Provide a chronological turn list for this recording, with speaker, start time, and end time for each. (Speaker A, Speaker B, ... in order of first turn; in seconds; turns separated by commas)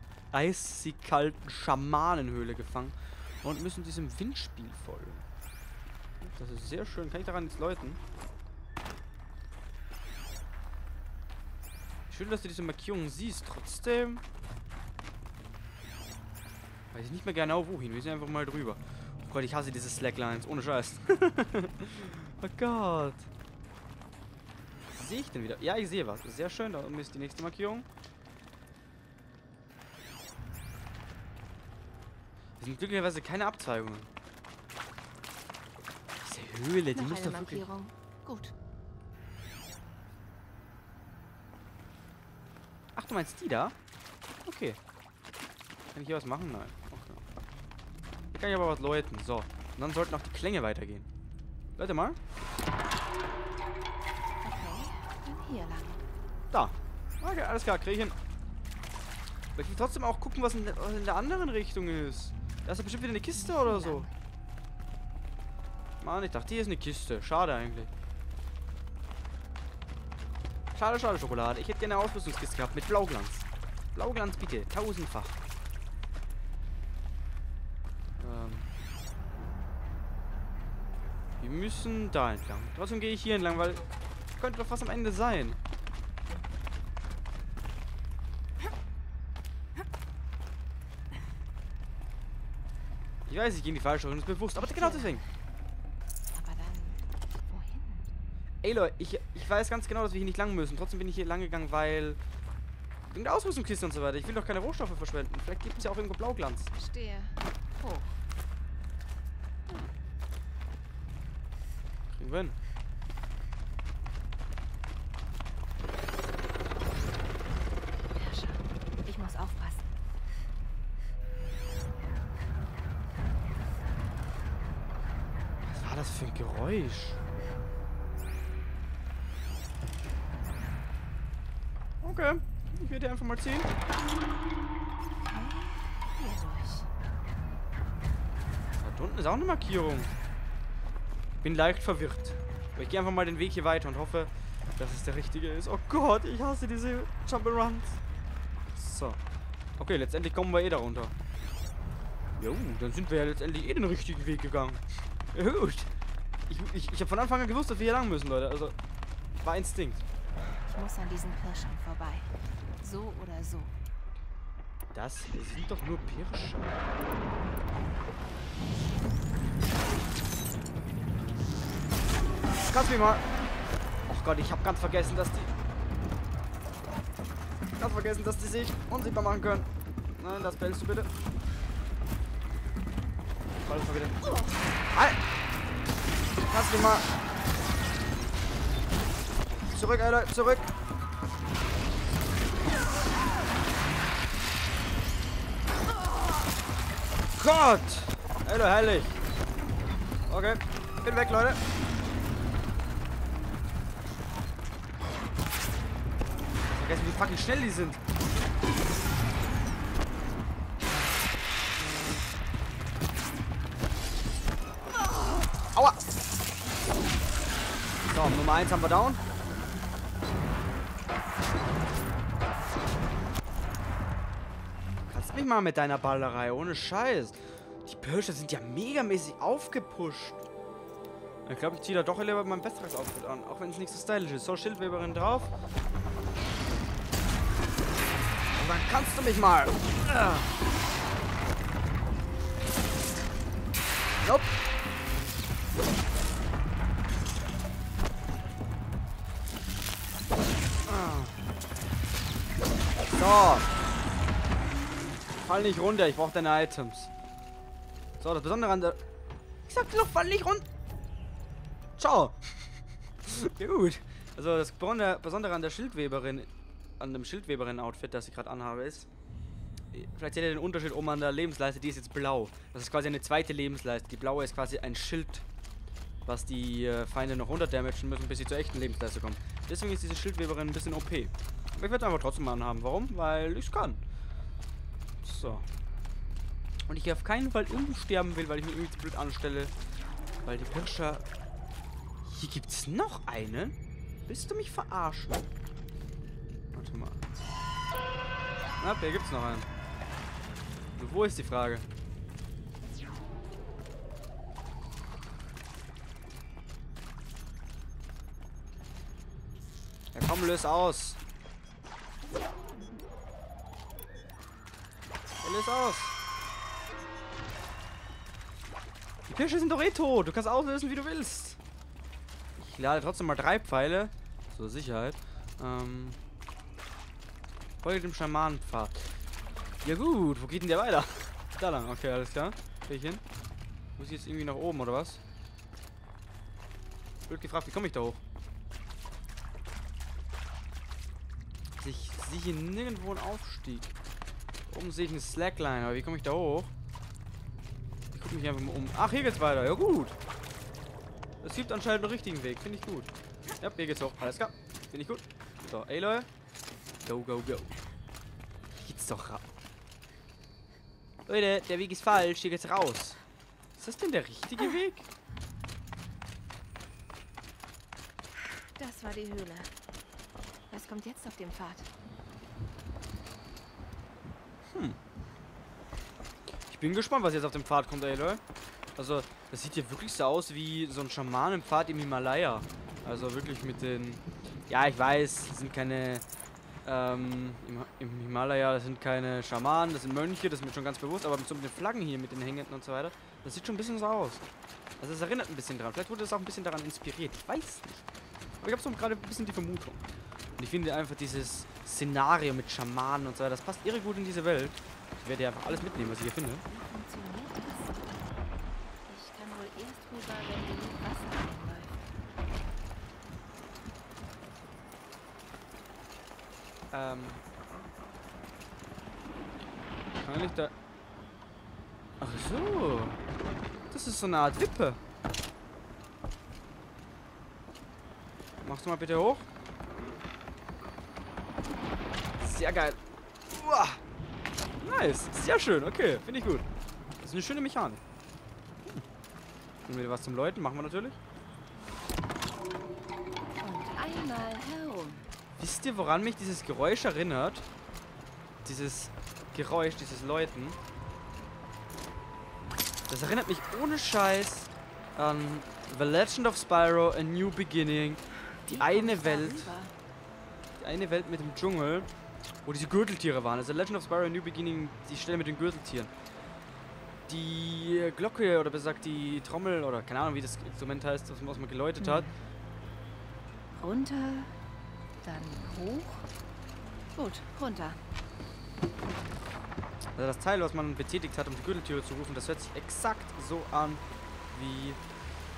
Speaker A: 0.3-5.2, Speaker A: 6.2-8.0, Speaker A: 12.1-14.2, Speaker A: 16.9-23.3, Speaker A: 24.9-27.9, Speaker A: 32.6-34.1, Speaker A: 36.2-37.7, Speaker B: 36.9-38.5, Speaker A: 42.9-43.7, Speaker A: 44.5-44.8, Speaker A: 45.9-47.2, Speaker A: 48.3-51.1, Speaker A: 51.8-52.2, Speaker B: 54.4-56.0, Speaker A: 56.5-58.1, Speaker A: 59.5-64.1, Speaker B: 63.3-64.1, Speaker A: 66.0-67.9, Speaker A: 70.7-75.4, Speaker A: 78.2-78.7, Speaker A: 81.4-85.6, Speaker A: 93.2-95.2, Speaker B: 94.6-95.3, Speaker B: 96.3-98.1, Speaker A: 98.6-102.2, Speaker A: 103.1-106.7, Speaker B: 106.7-108.2, Speaker A: 112.1-112.6, Speaker B: 118.1-119.8, Speaker A: 125.6-127.2, Speaker A: 132.0-133.7, Speaker B: 135.2-136.9, Speaker A: 138.8-140.1, Speaker A: 141.4-148.0, Speaker A: 148.7-149.2, Speaker A: 149.8-151.1, Speaker A: 152.4-155.9, Speaker A: 156.5-158.7, Speaker A: 159.4-160.0, Speaker B: 160.7-163.7, Speaker A: 164.9-166.8, Speaker A: 172.6-173.2, Speaker A: 174.1-175.5, Speaker A: 177.8-181.1, Speaker A: 183.6-184.3, Speaker A: 184.9-185.2, Speaker A: 186.5-187.1, Speaker A: 189.7-190.7, Speaker A: 197.3-199.2, Speaker A: 200.3-201.6, Speaker A: 206.7-208.0, Speaker A: 218.1-219.2, Speaker A: 225.1-230.4, Speaker A: 231.4-235.5, Speaker A: 238.5-240.5, Speaker A: 244.2-244.5, Speaker A: 250.8-251.4, Speaker A: 253.1-253.7, Speaker A: 255.4-257.1, Speaker A: 258.2-259.0, Speaker A: 259.7-260.6, Speaker A: 262.0-262.5, Speaker A: 263.2-269.1, Speaker A: 269.9-275.4, Speaker A: 276.2-284.0, Speaker A: 285.2-285.6, Speaker A: 286.9-289.7, Speaker A: 290.4-291.2, Speaker A: 292.2-295.5, Speaker A: 296.7-297.2, Speaker A: 298.8-299.7, Speaker A: 301.0-301.9, Speaker A: 310.1-311.2, Speaker A: 315.4-316.1, Speaker A: 319.3-321.6, Speaker A: 322.6-326.2, Speaker A: 327.8-329.1, Speaker A: 329.8-333.2, Speaker A: 334.0-335.2, Speaker A: 337.3-338.2, Speaker A: 341.8-343.9, Speaker A: 344.7-346.7, Speaker A: 348.1-350.2, Speaker A: 351.4-356.3, Speaker A: 357.0-357.7, Speaker A: 358.7-359.4, Speaker A: 361.3-363.2, Speaker A: 363.8-365.1, Speaker B: 368.7-369.7, Speaker B: 370.7-371.9, Speaker A: 374.7-375.0, Speaker A: 376.7-378.4, Speaker A: 379.0-386.2, Speaker A: 386.8-394.4, Speaker A: 395.0-398.1, Speaker A: 398.6-400.0, Speaker A: 400.6-406.6, Speaker B: 406.7-408.0, Speaker B: 409.1-412.0, Speaker A: 416.9-417.4, Speaker A: 420.2-420.7, Speaker A: 422.2-423.2, Speaker A: 423.9-425.0, Speaker A: 428.6-429.5, Speaker A: 432.4-434.0, Speaker A: 434.8-436.6, Speaker A: 437.2-438.0, Speaker A: 439.8-441.2, Speaker B: 443.6-445.3, Speaker A: 445.6-447.7, Speaker A: 448.6-450.8, Speaker A: 453.1-459.7, Speaker B: 458.6-459.9, Speaker A: 460.8-462.1, Speaker A: 462.6-466.1, Speaker A: 467.3-472.3, Speaker B: 472.0-472.3, Speaker B: 473.7-474.6, Speaker B: 475.2-476.3, Speaker B: 477.1-478.0, Speaker A: 480.1-485.0